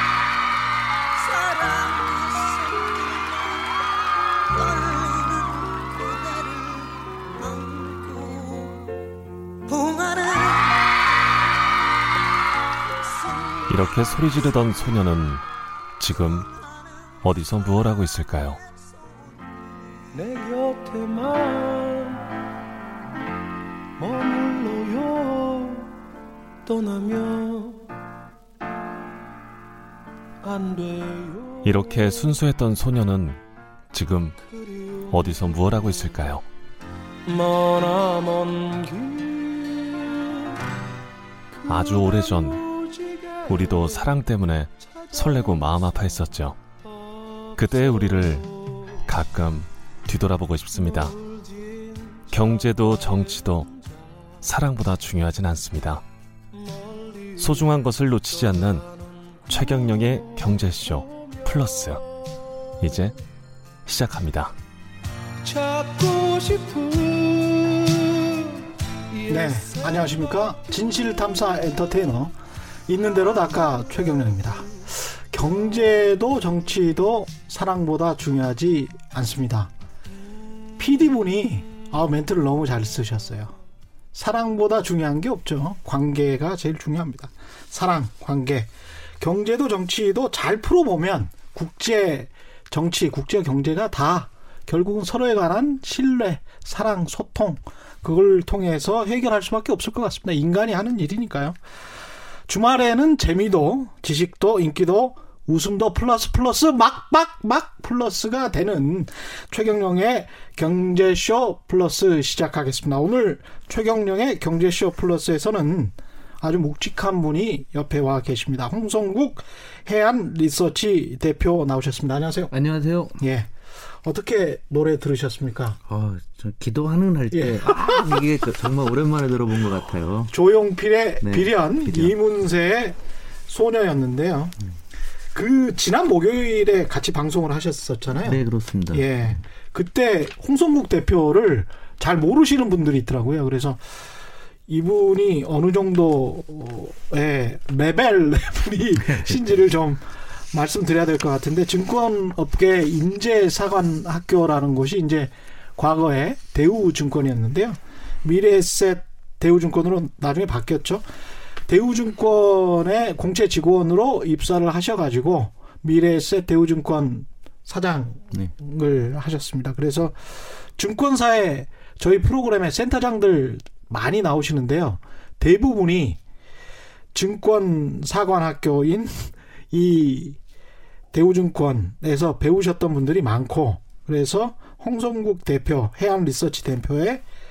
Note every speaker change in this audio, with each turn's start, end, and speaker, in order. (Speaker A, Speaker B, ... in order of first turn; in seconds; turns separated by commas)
Speaker A: 1.3-2.8, Speaker A: 4.7-5.6, Speaker A: 6.2-6.9, Speaker A: 7.5-8.9, Speaker A: 9.7-10.7, Speaker B: 13.7-15.4, Speaker B: 16.0-16.5, Speaker B: 17.2-18.6, Speaker A: 20.1-22.3, Speaker A: 24.0-26.0, Speaker A: 26.6-27.9, Speaker A: 30.4-31.9, Speaker B: 31.6-33.4, Speaker B: 33.9-34.4, Speaker A: 34.5-35.4, Speaker B: 35.1-36.4, Speaker A: 37.2-40.6, Speaker A: 41.6-44.2, Speaker B: 41.7-42.6, Speaker B: 43.5-46.6, Speaker A: 44.8-45.9, Speaker A: 47.3-49.0, Speaker B: 47.6-51.1, Speaker A: 50.8-52.3, Speaker B: 52.3-53.7, Speaker B: 54.4-56.0, Speaker A: 56.5-57.7, Speaker B: 57.4-58.9, Speaker B: 59.5-62.0, Speaker A: 59.5-60.2, Speaker B: 62.8-63.1, Speaker B: 63.9-64.5, Speaker A: 65.4-70.3, Speaker C: 69.3-72.3, Speaker C: 72.9-79.7, Speaker C: 80.8-83.6, Speaker C: 84.1-88.7, Speaker C: 89.2-101.6, Speaker C: 102.5-122.5, Speaker D: 122.5-123.2, Speaker C: 123.2-123.5, Speaker C: 124.0-125.8, Speaker D: 125.9-130.3, Speaker C: 127.3-128.2, Speaker C: 130.3-133.0, Speaker D: 131.2-132.2, Speaker C: 133.5-134.6, Speaker C: 135.3-143.8, Speaker D: 138.2-139.4, Speaker C: 144.7-161.0, Speaker D: 149.1-149.4, Speaker C: 161.7-176.2, Speaker C: 177.1-180.4, Speaker C: 181.1-187.2